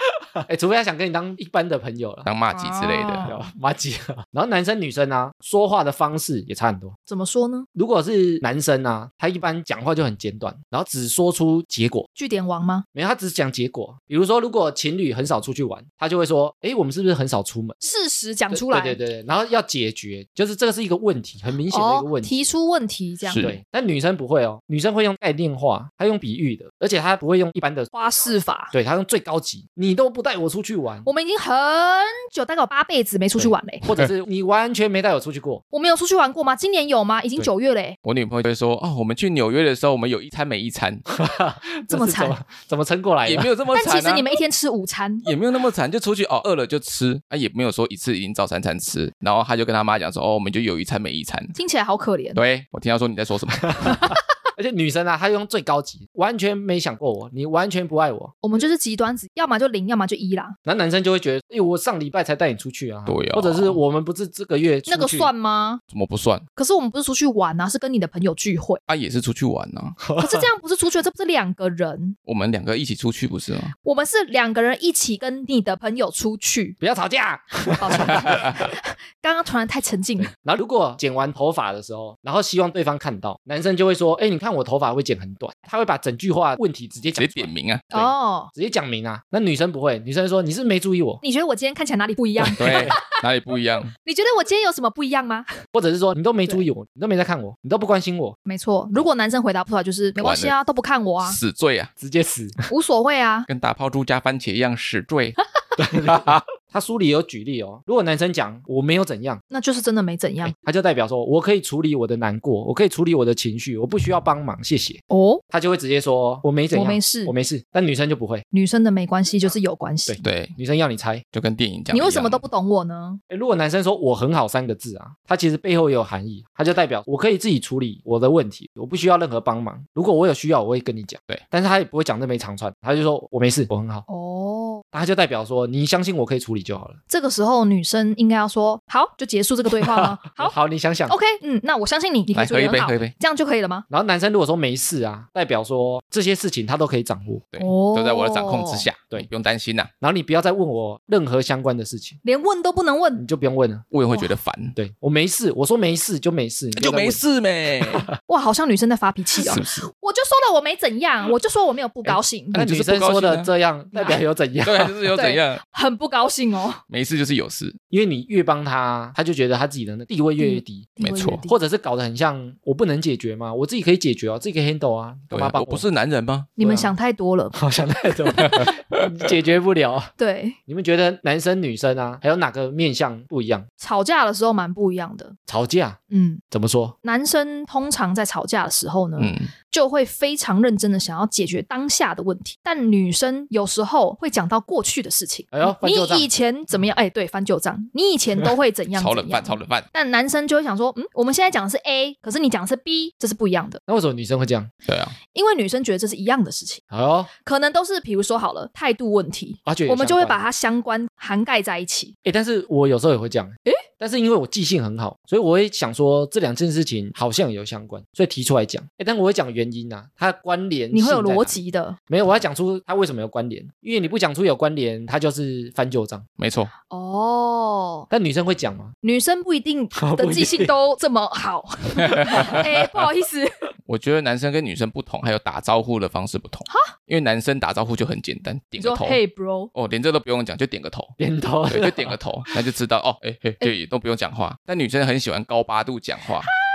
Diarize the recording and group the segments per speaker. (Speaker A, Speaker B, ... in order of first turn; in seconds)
Speaker A: 0.4-2.3, 3.2-7.0, 7.7-12.1, 12.9-17.8, 18.5-22.4, 23.4-27.9, 28.7-31.1, 33.4-35.6, 41.1-43.5, 53.8-58.3, 60.6-65.3, 70.0-70.5, 76.8-78.5, 80.2-91.2, 92.4-93.0, 95.7-98.3, 102.0-102.6, 105.8-109.4, 110.4-118.4, 120.1-121.2, 123.3-134.0, 134.9-137.0, 139.8-141.1, 143.9-147.4, 150.0-152.2, 153.2-153.8, 154.7-157.2, 157.8-158.1, 162.0-165.1, 167.9-170.9, 171.4-175.8, 176.6-176.9, 177.5-180.1, 180.7-183.7, 185.5-186.0, 186.5-186.9, 195.5-196.3, 203.9-204.7, 206.9-207.3, 209.6-210.4, 212.2-221.5, 222.1-226.2, 228.1-228.9, 229.9-230.7, 232.3-232.6, 241.2-242.2
Speaker B: 2.2-3.3, 23.2-23.6, 38.0-41.0, 43.2-44.3, 45.2-51.5, 52.3-54.0, 63.0-63.8, 65.9-66.5, 68.9-70.0, 72.2-73.7, 87.2-87.9, 92.6-93.9, 100.2-100.5, 101.2-101.9, 103.5-105.4, 120.2-120.5, 121.3-122.4, 142.3-143.1, 147.5-149.9, 153.9-154.8, 156.7-158.1, 159.4-159.9, 162.5-163.5, 164.6-165.6, 166.9-167.8, 171.0-171.4, 175.3-176.5, 189.2-189.5, 198.9-199.9, 204.8-205.2, 226.4-226.7, 232.1-232.7, 233.8-239.2, 239.7-241.1, 241.7-246.5
Speaker C: 2.5-3.4, 7.1-7.7, 12.2-12.8, 17.8-19.0, 21.7-23.4, 27.9-28.7, 31.0-33.8, 35.7-38.0, 41.9-42.4, 43.7-45.3, 51.5-52.4, 58.4-60.5, 64.9-65.8, 66.5-68.8, 70.2-72.2, 73.8-76.8, 77.8-80.3, 87.9-88.5, 91.2-93.0, 94.0-95.5, 98.5-101.4, 102.7-103.5, 109.5-110.5, 115.1-115.4, 116.7-117.3, 118.5-120.2, 121.9-123.2, 134.1-134.8, 137.1-140.5, 141.1-143.8, 147.6-148.9, 152.2-153.2, 158.2-162.6, 165.1-166.8, 170.4-171.6, 176.6-177.6, 178.3-178.6, 180.2-180.6, 183.8-185.3, 186.1-186.4, 187.0-203.8, 205.3-206.8, 207.4-212.1, 220.9-222.0, 226.9-228.1, 229.0-233.5, 238.8-239.7